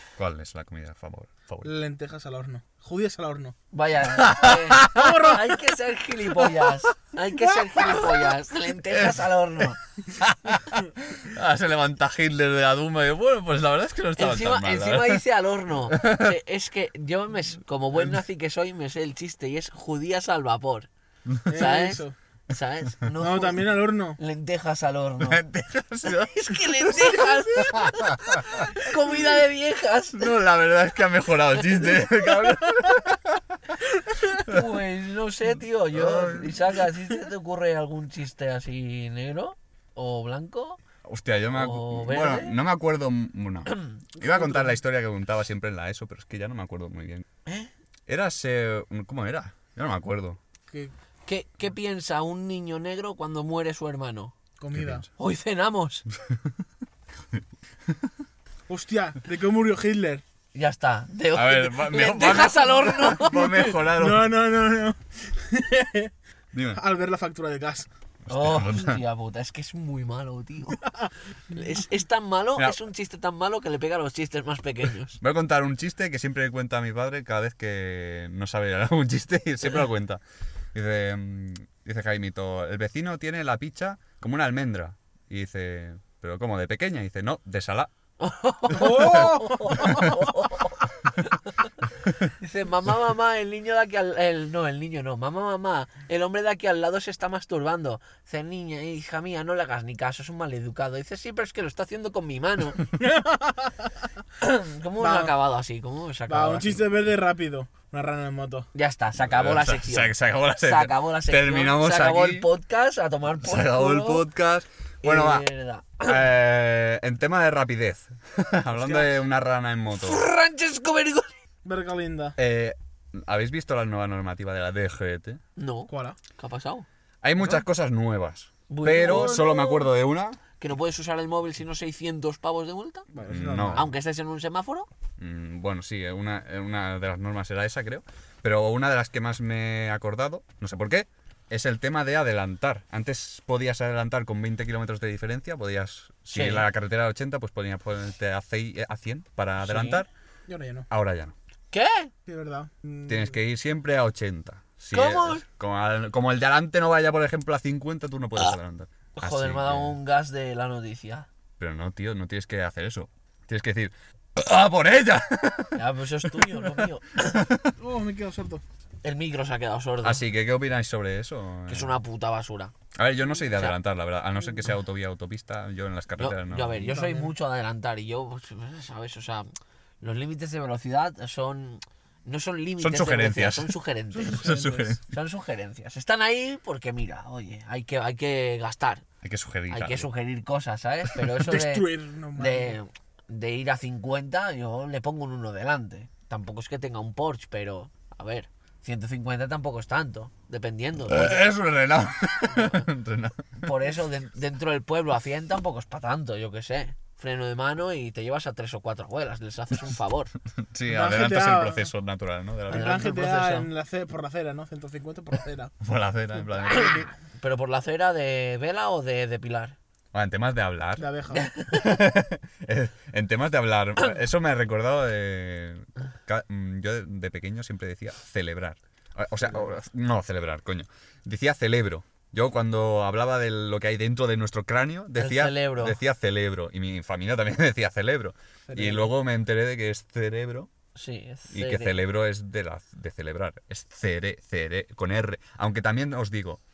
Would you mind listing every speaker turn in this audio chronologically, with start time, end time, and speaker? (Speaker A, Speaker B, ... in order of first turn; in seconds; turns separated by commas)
Speaker A: 0.2-1.7, Speaker B: 1.6-3.5, Speaker C: 3.7-9.8, Speaker A: 4.1-5.2, Speaker B: 4.8-5.5, Speaker B: 7.4-8.1, Speaker A: 8.9-9.6, Speaker A: 10.2-15.2, Speaker C: 14.2-20.9, Speaker A: 15.9-16.4, Speaker A: 21.3-21.6, Speaker B: 21.5-22.1, Speaker C: 21.5-25.4, Speaker B: 23.2-24.2, Speaker A: 25.2-28.9, Speaker C: 26.1-30.3, Speaker A: 30.1-33.6, Speaker C: 34.2-40.8, Speaker A: 34.4-34.6, Speaker A: 35.9-36.8, Speaker A: 41.0-47.2, Speaker C: 41.5-42.5, Speaker C: 43.7-44.0, Speaker B: 44.2-44.7, Speaker C: 47.5-47.7, Speaker A: 48.1-50.4, Speaker C: 51.2-54.3, Speaker B: 54.6-55.0, Speaker A: 54.7-55.1, Speaker C: 55.2-56.0, Speaker A: 56.2-56.5, Speaker A: 57.3-58.1, Speaker B: 58.7-60.2, Speaker C: 60.5-63.5, Speaker A: 61.3-64.3, Speaker B: 63.2-66.1, Speaker A: 66.5-66.8, Speaker B: 66.7-67.9, Speaker A: 68.2-69.0, Speaker C: 68.3-70.8, Speaker B: 70.8-71.7, Speaker C: 71.5-75.2, Speaker A: 75.2-80.2, Speaker A: 80.7-87.9, Speaker C: 88.2-91.5, Speaker B: 88.7-90.1, Speaker A: 89.0-90.4, Speaker C: 92.3-102.8, Speaker B: 103.0-103.7, Speaker C: 104.4-106.8, Speaker B: 105.0-105.3, Speaker B: 106.3-108.7, Speaker C: 108.7-114.2, Speaker A: 109.2-112.5, Speaker A: 113.4-115.5, Speaker C: 115.0-116.2, Speaker A: 116.0-120.2, Speaker B: 118.7-119.2, Speaker C: 119.9-121.3, Speaker B: 121.6-122.4, Speaker A: 122.4-125.4, Speaker C: 125.5-126.9, Speaker B: 125.9-126.2, Speaker A: 127.2-130.4, Speaker C: 128.7-129.7, Speaker B: 128.9-129.6, Speaker C: 130.6-133.1, Speaker B: 133.1-133.9, Speaker A: 133.3-133.9, Speaker C: 133.6-134.9, Speaker A: 135.2-150.1, Speaker C: 146.3-146.7, Speaker C: 149.6-150.0, Speaker B: 150.5-150.9, Speaker A: 150.9-151.3, Speaker C: 151.7-152.1, Speaker B: 152.3-153.4, Speaker A: 153.1-159.9, Speaker C: 154.9-155.4, Speaker C: 159.1-161.3, Speaker A: 161.6-167.7, Speaker C: 165.7-167.5, Speaker B: 167.8-168.6, Speaker C: 169.0-170.2, Speaker A: 170.0-171.9, Speaker C: 171.7-172.7, Speaker A: 172.9-176.9, Speaker C: 176.2-179.5, Speaker B: 176.8-177.3, Speaker C: 180.0-189.0, Speaker A: 182.8-185.0, Speaker B: 184.2-184.9, Speaker A: 189.2-190.1, Speaker C: 189.7-201.4, Speaker B: 191.4-192.8, Speaker A: 201.1-203.7, Speaker C: 203.6-210.3, Speaker A: 210.6-213.0, Speaker B: 210.9-211.9, Speaker B: 212.7-215.7, Speaker C: 212.7-213.7, Speaker A: 215.8-217.1, Speaker C: 216.7-219.8, Speaker B: 216.7-217.1, Speaker A: 220.1-221.1, Speaker B: 221.0-221.5, Speaker C: 221.3-221.9, Speaker A: 221.7-240.7, Speaker C: 235.2-236.0, Speaker B: 238.7-239.1, Speaker C: 240.9-242.0, Speaker A: 241.5-246.6